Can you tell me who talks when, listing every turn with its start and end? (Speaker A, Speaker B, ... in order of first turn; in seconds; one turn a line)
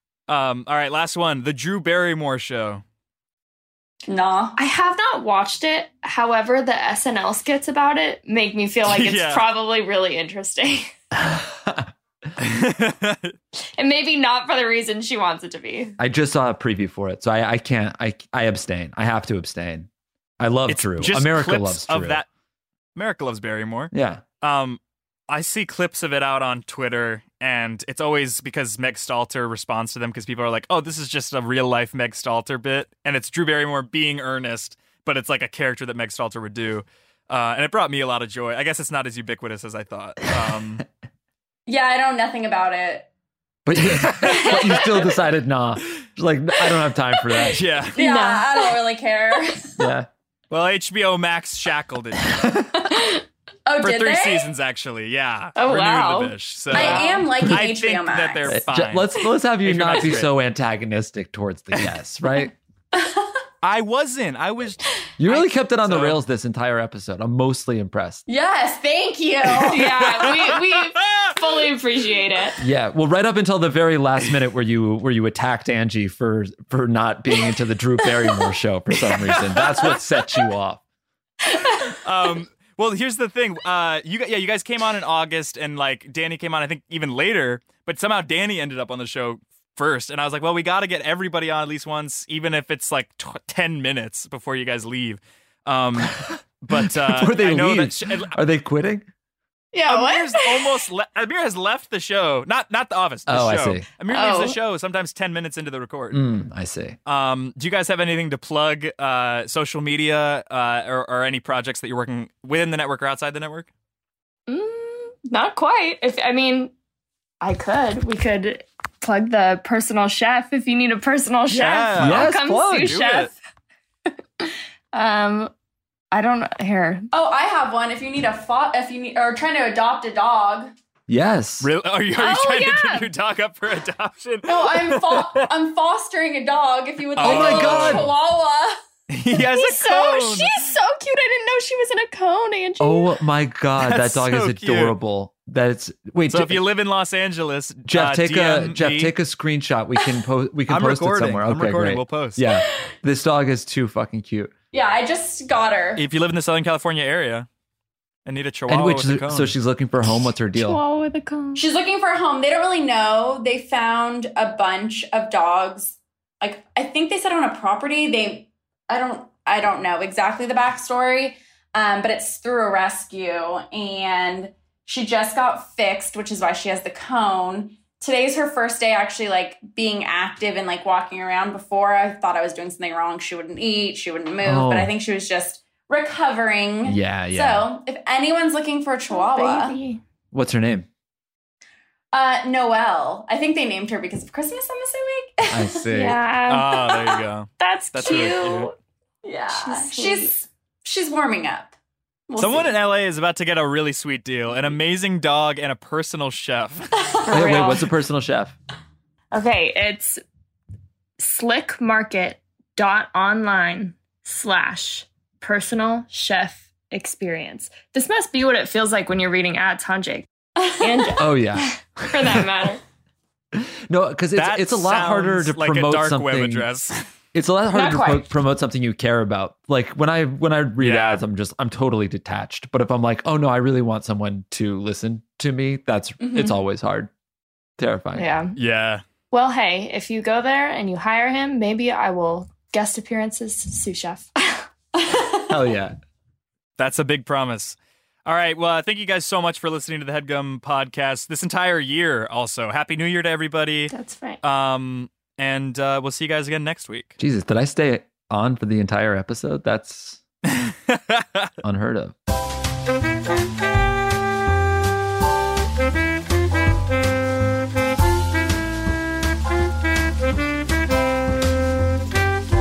Speaker A: 0.3-2.8
Speaker B: 4.1-4.6
Speaker C: 4.6-10.9
Speaker A: 8.9-9.5
Speaker D: 11.1-11.9
Speaker A: 12.4-13.3
Speaker C: 13.6-16.0
Speaker D: 16.0-19.9
Speaker D: 20.4-22.2
Speaker A: 20.7-22.3
Speaker A: 22.9-40.8
Speaker D: 23.9-24.2
Speaker B: 41.7-43.1
Speaker D: 43.7-47.7
Speaker A: 43.8-44.9
Speaker A: 47.5-48.0
Speaker B: 48.0-49.9
Speaker C: 48.0-48.8
Speaker D: 49.8-50.1
Speaker A: 50.5-52.6
Speaker D: 52.4-52.8
Speaker C: 52.8-53.2
Speaker B: 53.7-54.5
Speaker A: 53.8-60.3
Speaker C: 55.6-57.3
Speaker B: 56.7-58.6
Speaker D: 58.5-62.5
Speaker B: 62.9-63.3
Speaker A: 63.6-66.2
Speaker D: 65.2-68.2
Speaker B: 68.3-69.9
Speaker C: 69.7-72.6
Speaker A: 70.2-71.4
Speaker D: 72.6-80.8
Speaker A: 78.9-80.0
Speaker A: 82.0-98.4
Speaker D: 96.0-99.1
Speaker B: 99.7-100.7
Speaker A: 99.9-106.2
Speaker D: 103.3-103.9
Speaker B: 104.1-104.6
Speaker D: 106.1-107.0
Speaker A: 107.1-113.7
Speaker C: 114.5-116.7
Speaker C: 117.4-123.3
Speaker A: 121.5-123.3
Speaker D: 122.0-122.9
Speaker C: 124.4-125.5
Speaker C: 126.1-127.1
Speaker B: 127.1-130.7
Speaker D: 131.1-131.7
Speaker A: 131.6-135.5
Speaker C: 132.2-133.1
Speaker B: 134.5-138.8
Speaker A: 137.2-138.1
Speaker D: 137.2-138.1
Speaker A: 139.1-140.6
Speaker C: 139.3-143.2
Speaker D: 142.8-146.6
Speaker A: 143.8-145.0
Speaker A: 146.3-149.2
Speaker D: 147.9-154.5
Speaker A: 150.7-152.4
Speaker B: 154.7-156.1
Speaker A: 156.0-157.5
Speaker A: 158.3-159.5
Speaker D: 158.7-160.8
Speaker C: 160.5-161.6
Speaker B: 161.6-189.8
Speaker D: 184.4-184.9
Speaker D: 186.8-187.7
Speaker C: 189.1-190.0
Speaker D: 190.3-190.9
Speaker B: 192.1-195.9
Speaker D: 195.5-196.2
Speaker C: 195.9-196.8
Speaker A: 196.5-198.7
Speaker B: 196.8-197.2
Speaker C: 197.6-198.8
Speaker B: 199.2-201.8
Speaker C: 199.5-200.3
Speaker B: 202.3-202.8
Speaker A: 202.4-206.9
Speaker B: 207.0-207.6
Speaker C: 207.2-207.9
Speaker D: 207.3-208.5
Speaker C: 209.3-210.2
Speaker C: 211.2-220.3
Speaker B: 220.6-221.1
Speaker C: 220.8-222.8
Speaker D: 221.2-222.5
Speaker D: 223.5-226.7
Speaker A: 224.3-227.0
Speaker D: 227.3-237.1
Speaker C: 227.7-228.3
Speaker A: 230.8-231.2
Speaker B: 236.2-236.6
Speaker D: 237.8-238.3
Speaker C: 238.2-238.6
Speaker A: 238.6-239.0
Speaker C: 239.3-244.7
Speaker B: 244.9-245.6
Speaker D: 245.5-246.0
Speaker A: 246.8-257.2
Speaker C: 253.9-254.4
Speaker D: 257.2-260.2
Speaker A: 260.5-261.5
Speaker D: 261.6-262.1